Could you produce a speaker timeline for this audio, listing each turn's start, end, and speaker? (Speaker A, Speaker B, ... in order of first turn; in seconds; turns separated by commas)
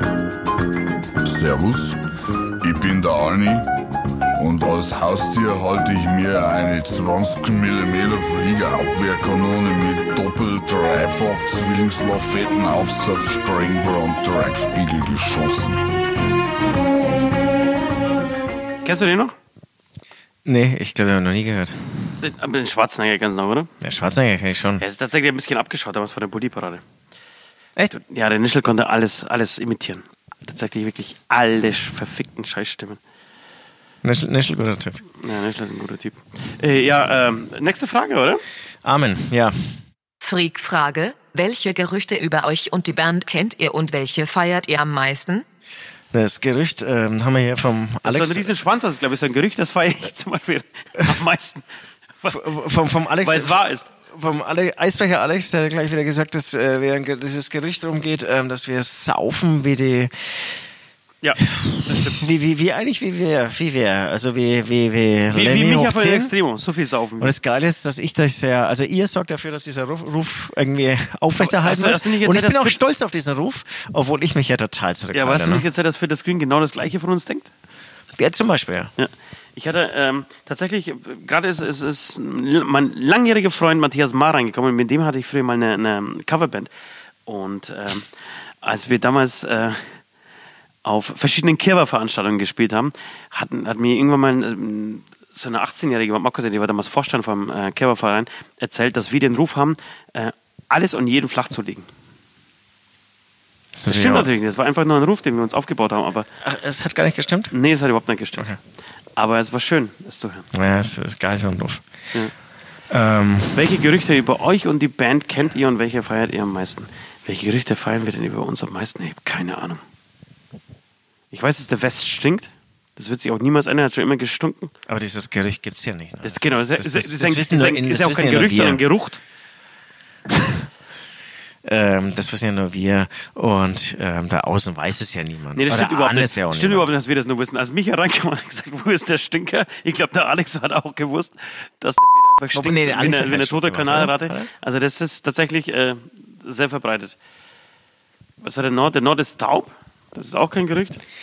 Speaker A: 1.2-2.0, Speaker A: 2.6-3.7, Speaker A: 4.4-15.8, Speaker B: 18.8-19.3, Speaker C: 20.4-22.0, Speaker B: 22.2-23.7, Speaker C: 23.8-24.8, Speaker B: 24.8-26.8, Speaker B: 27.9-33.0, Speaker C: 34.0-35.0, Speaker B: 35.2-38.4, Speaker C: 38.8-39.7, Speaker D: 40.2-45.4, Speaker C: 46.1-48.5, Speaker B: 48.0-51.6, Speaker B: 52.2-52.5, Speaker C: 52.3-60.1, Speaker B: 53.2-53.9, Speaker B: 61.2-62.2, Speaker C: 61.5-66.3, Speaker B: 65.3-67.3, Speaker C: 67.2-75.7, Speaker B: 71.4-72.8, Speaker B: 75.1-77.5, Speaker C: 78.1-78.9, Speaker B: 79.0-86.7, Speaker B: 87.3-88.1, Speaker B: 88.6-89.8, Speaker B: 90.8-101.9, Speaker C: 103.7-104.3, Speaker B: 103.9-106.3, Speaker C: 106.4-107.5, Speaker B: 107.5-108.5, Speaker B: 109.2-110.5, Speaker C: 110.5-111.8, Speaker C: 112.9-113.8, Speaker B: 113.5-119.8, Speaker B: 121.3-124.7, Speaker C: 124.9-128.8, Speaker B: 126.2-129.2, Speaker C: 130.3-130.7, Speaker C: 131.6-136.9, Speaker B: 135.5-147.2, Speaker C: 142.5-144.5, Speaker B: 148.4-151.0